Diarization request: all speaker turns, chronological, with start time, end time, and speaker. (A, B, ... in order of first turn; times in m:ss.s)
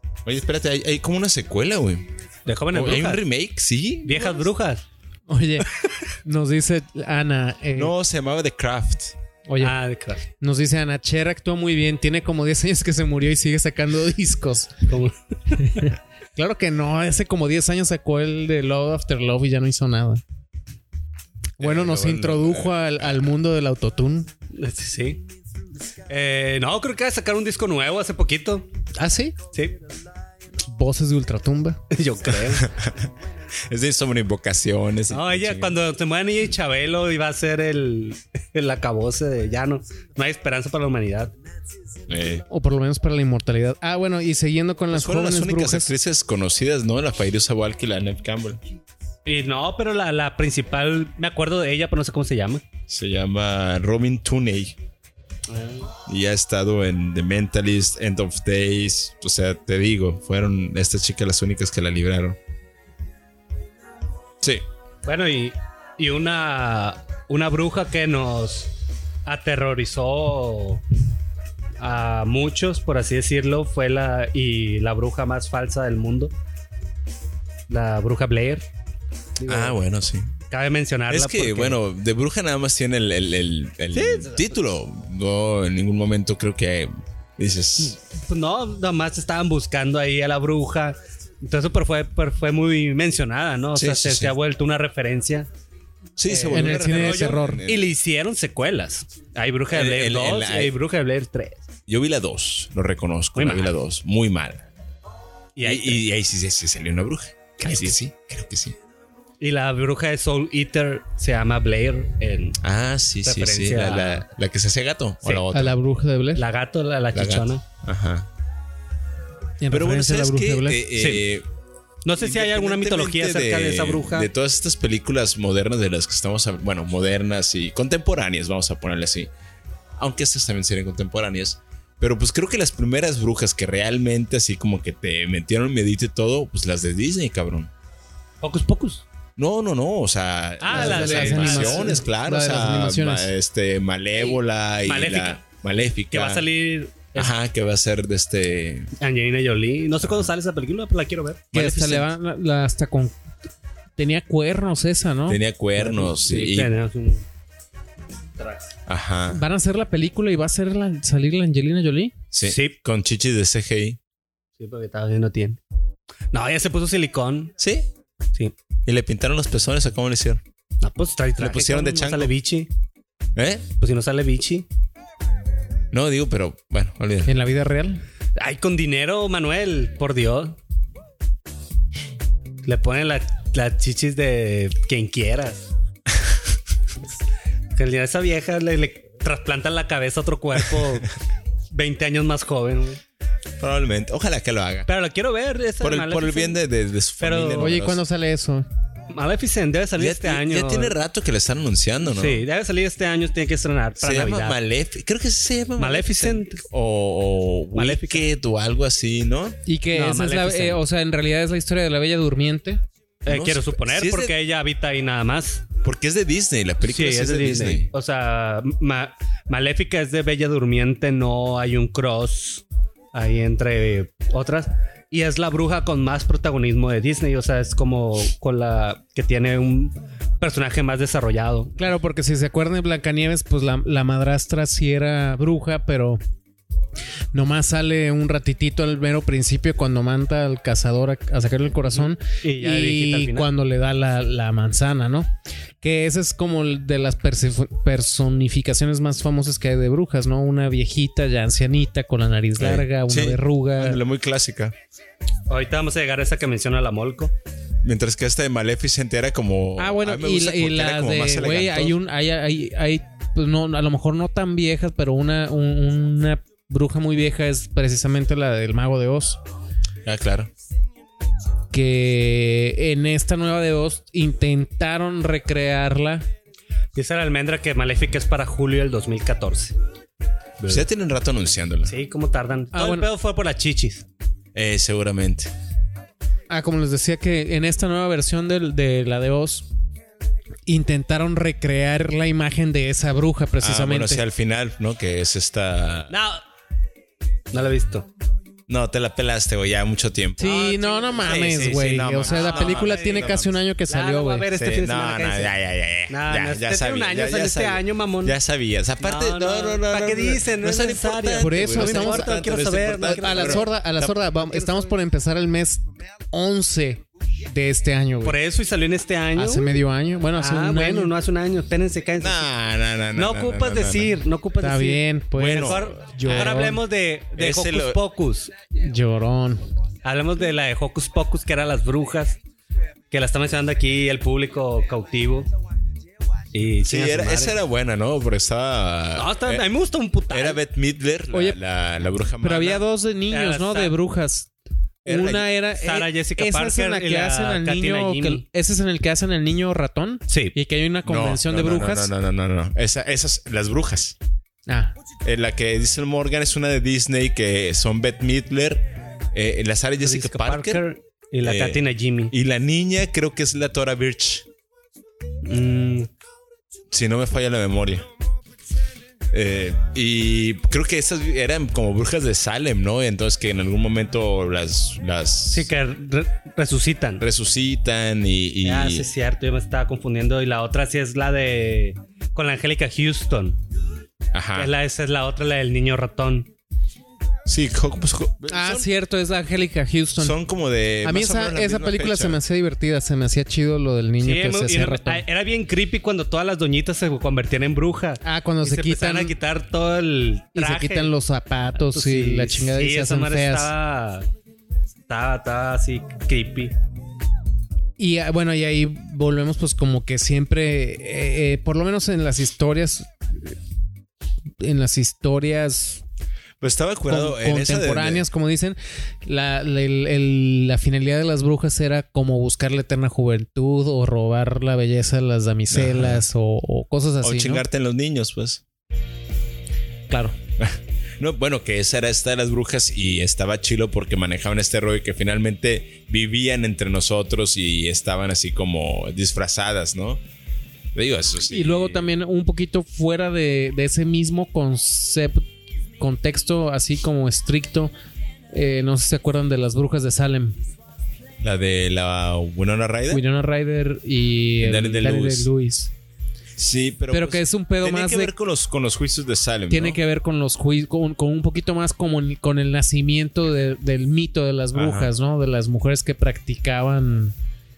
0:00.2-0:02.1 A
0:02.4-0:03.2 B
0:02.7-0:04.4 A
0:04.0-0:04.8 B
0:05.3-0:05.7 C
0:06.2-0:07.9 C
0:07.7-0:09.2 A
0:09.5-0:09.8 C
0:09.6-0:10.2 B
0:10.4-0:14.8 C
0:14.9-0:15.1 B
0:15.5-0:20.2 C
0:21.6-0:24.3 C
0:21.6-0:23.0 A
0:24.5-0:25.2 B
0:26.1-0:28.7 B
0:29.0-0:29.4 C
0:30.7-0:31.8 C
0:31.9-0:32.7 B
0:32.4-0:33.1 A
0:33.6-0:35.8 A
0:35.1-0:41.3 B
0:42.1-0:42.4 A
0:42.5-0:45.9 C
0:44.9-0:48.6 A
0:49.2-0:52.6 B
0:52.9-0:54.8 A
0:55.5-0:55.9 B
0:56.0-1:02.4 A
1:05.0-1:08.7 B
1:09.2-1:10.8 B
1:11.8-1:16.3 B
1:17.7-1:18.6 B
1:19.4-1:19.8 B
1:19.4-1:20.3 A
1:20.5-1:21.8 B
1:21.1-1:28.0 A
1:23.9-1:24.5 B
1:27.9-1:35.5 B
1:33.8-1:34.3 A
1:36.2-1:37.9 A
1:36.2-1:41.6 B
1:36.5-1:37.6 C
1:39.7-1:40.7 A
1:41.9-1:44.6 A
1:43.4-1:43.7 B
1:45.6-1:46.0 B
1:45.6-1:48.8 A
1:47.6-1:48.0 B
1:49.4-1:52.6 B
1:52.6-1:55.8 A
1:53.2-1:54.2 B
1:55.5-1:56.4 C
1:56.4-1:57.6 B
1:57.1-1:58.3 A
1:59.6-2:00.8 C
1:59.7-2:01.4 A
2:01.0-2:01.2 B
2:02.0-2:04.3 B
2:02.2-2:09.3 A
2:10.0-2:17.7 A
2:18.4-2:19.0 B
2:19.4-2:26.4 A
2:20.6-2:22.0 B
2:20.7-2:23.3 C
2:24.2-2:25.4 B
2:26.1-2:27.3 B
2:27.1-2:28.9 A
2:29.0-2:31.5 B
2:30.0-2:30.3 A
2:31.5-2:32.1 A
2:31.5-2:33.1 C
2:34.0-2:35.4 C
2:35.3-2:36.7 A
2:35.8-2:37.2 B
2:38.4-2:38.7 B
2:38.9-2:39.4 A
2:39.3-2:42.1 C
2:42.3-2:44.0 A
2:42.4-2:42.8 B
2:44.6-2:45.6 B
2:46.3-2:47.5 B
2:47.6-2:47.9 A
2:48.8-2:50.4 A
2:50.8-2:52.7 B
2:51.4-2:52.3 A
2:53.4-2:53.7 A
2:53.8-2:54.6 B
2:55.9-2:57.3 A
2:57.2-2:58.0 C
2:58.4-3:00.6 B
3:02.6-3:05.7 B
3:07.7-3:11.1 B
3:11.7-3:13.0 B
3:13.6-3:14.9 A
3:14.9-3:16.6 B
3:15.8-3:18.0 A
3:17.2-3:17.7 B
3:17.6-3:18.6 C
3:19.1-3:20.9 B
3:20.0-3:22.4 A
3:22.1-3:24.6 B
3:24.0-3:29.6 A
3:25.8-3:26.6 B
3:27.7-3:28.2 B
3:29.6-3:32.8 C
3:29.9-3:30.8 B
3:33.2-3:35.7 B
3:33.3-3:34.4 A
3:35.8-3:37.9 A
3:36.8-3:51.8 B
3:51.8-3:56.2 C
3:57.3-4:14.0 C
4:02.3-4:03.5 B
4:12.6-4:14.7 A
4:15.5-4:17.3 B
4:17.8-4:22.0 A
4:19.8-4:29.4 C
4:30.0-4:30.5 A
4:31.7-4:36.2 C
4:36.9-4:39.7 B
4:40.6-4:42.0 A
4:41.8-4:44.0 B
4:42.7-4:43.0 C
4:44.5-4:45.5 A
4:46.5-4:49.6 C
4:50.7-4:54.2 C
4:53.6-4:56.2 A
4:56.1-4:56.4 B
4:57.5-4:58.1 B
4:58.7-5:03.6 A
5:00.4-5:04.5 C
5:00.4-5:03.3 B
5:03.9-5:05.5 B
5:04.6-5:14.2 A
5:06.1-5:08.4 B
5:09.0-5:13.7 B
5:11.4-5:12.4 C
5:13.1-5:18.4 C
5:18.2-5:19.7 B
5:19.4-5:21.1 C
5:20.4-5:22.4 B
5:22.2-5:24.2 A
5:23.1-5:28.5 B
5:24.6-5:26.8 C
5:25.3-5:26.5 A
5:27.4-5:28.0 A
5:28.8-5:29.7 C
5:30.0-5:32.4 B
5:33.1-5:35.5 B
5:36.5-5:37.6 B
5:36.8-5:39.6 A
5:39.2-5:40.6 B
5:40.3-5:42.8 A
5:41.3-5:41.6 C
5:42.4-5:44.5 C
5:43.3-5:43.9 B
5:45.0-5:45.5 A
5:45.0-5:52.1 C
5:45.8-5:48.4 B
5:50.3-5:50.6 B
5:51.0-5:54.2 A
5:54.7-5:55.0 C
5:55.2-6:00.8 A
6:00.0-6:02.3 B
6:01.4-6:04.4 A
6:05.4-6:06.1 B
6:06.9-6:08.1 A
6:09.3-6:15.7 A
6:15.5-6:17.2 B
6:17.2-6:19.1 A
6:18.6-6:23.6 B
6:24.3-6:24.7 A
6:24.6-6:26.5 B
6:27.5-6:28.9 A
6:28.5-6:30.4 C
6:30.2-6:32.4 A
6:31.0-6:35.2 C
6:34.2-6:41.1 B
6:38.2-6:39.3 C
6:40.6-6:43.7 C
6:41.7-6:44.3 B
6:45.1-6:46.7 B
6:48.0-6:53.6 C
6:54.6-6:56.0 C
6:56.6-6:58.2 A
6:57.1-7:07.6 C
7:05.7-7:06.2 A
7:07.2-7:08.6 A
7:10.1-7:10.3 C
7:10.6-7:20.2 A
7:20.9-7:22.1 A
7:21.5-7:25.4 C
7:26.0-7:27.9 C
7:28.5-7:30.6 C
7:31.4-7:33.2 A
7:33.1-7:35.9 C
7:34.6-7:35.5 A
7:36.6-7:40.0 A
7:37.1-7:38.3 C
7:39.7-7:47.3 C
7:44.7-7:45.1 A